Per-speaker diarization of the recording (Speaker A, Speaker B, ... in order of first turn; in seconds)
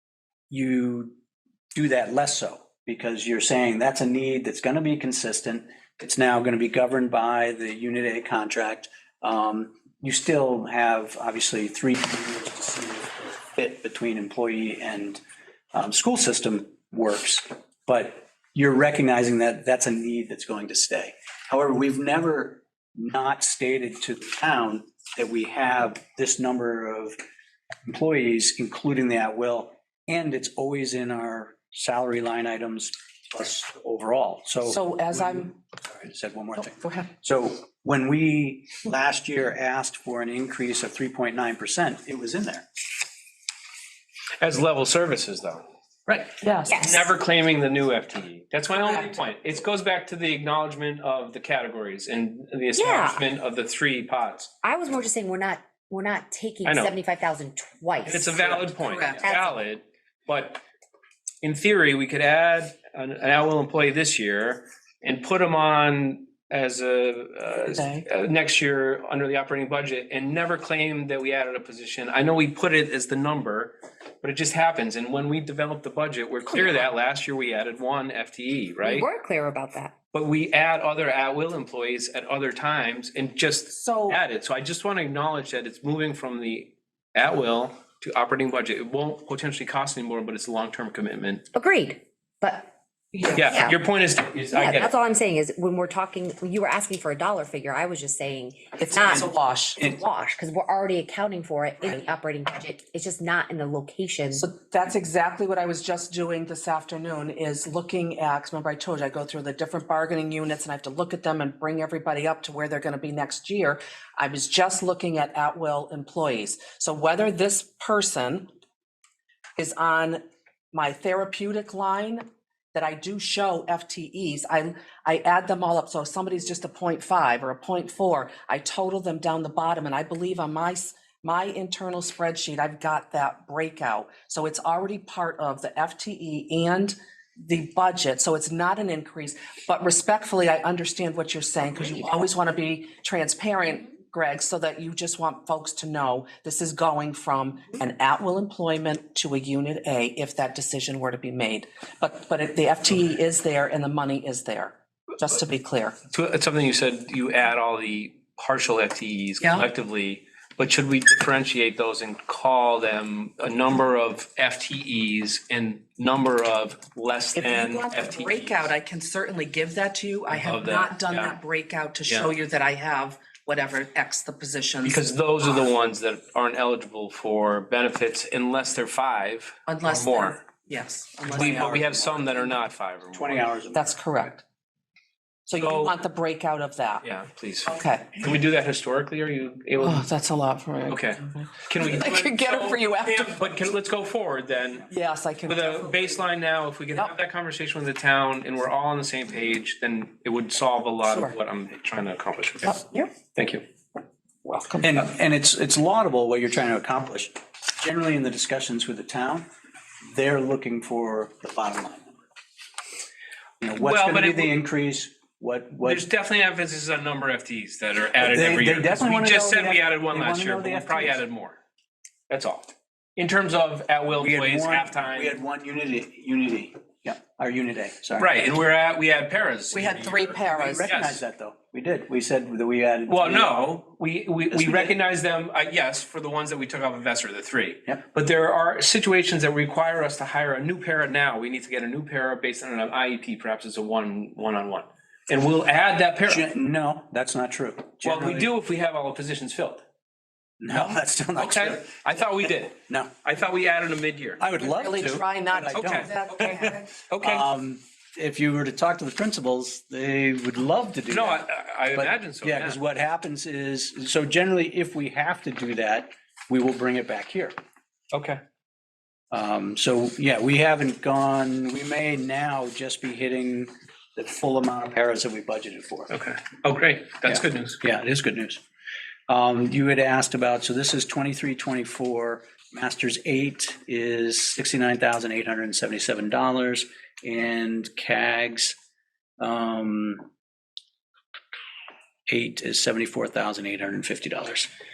Speaker A: 0.5-1.1, 1.8-15.2, 15.7-27.2, 27.9-42.7, 181.3-182.3, 183.1-183.9, 204.8-209.5, 210.1-212.1, 213.6-216.1, 218.2-221.2, 224.2-228.3, 230.4-233.6, 234.5-235.0, 246.3-248.5, 250.6-251.9, 252.9-253.1, 254.4-256.1, 257.2-267.5, 269.3-276.1, 277.3-278.6, 279.3-288.8, 289.4-290.2, 292.3-294.7
Speaker B: 34.7-35.5, 36.7-37.1, 46.2-47.0, 58.8-59.4, 67.6-68.1, 83.7-84.2, 93.1-93.4, 98.8-99.8, 104.4-118.5, 119.6-120.2, 120.7-156.0, 167.3-175.1, 179.7-182.4, 183.7-184.4, 185.5-187.1, 187.7-188.2, 189.8-193.4, 194.9-196.2, 201.0-201.3, 202.7-203.1, 204.4-205.1, 229.7-230.8, 254.5-256.9
Speaker C: 44.4-45.6, 46.7-54.5, 56.6-57.0, 58.0-60.6, 61.4-79.1, 80.1-91.5, 93.3-94.9, 156.1-168.7, 170.3-171.4, 172.1-172.3, 174.8-180.4, 181.3-183.5, 185.6-185.9, 187.0-190.1, 190.9-194.9, 195.5-203.6, 213.8-214.5, 215.8-221.6, 222.3-225.4, 228.2-231.2, 233.1-246.5, 248.0-249.8, 250.7-254.4, 255.7-257.4, 261.1-262.8, 268.1-268.4, 276.1-277.8
Speaker D: 46.7-47.0, 52.8-53.2, 54.6-59.6, 76.5-76.9, 78.8-79.9, 91.5-92.7, 93.5-93.8, 94.5-104.5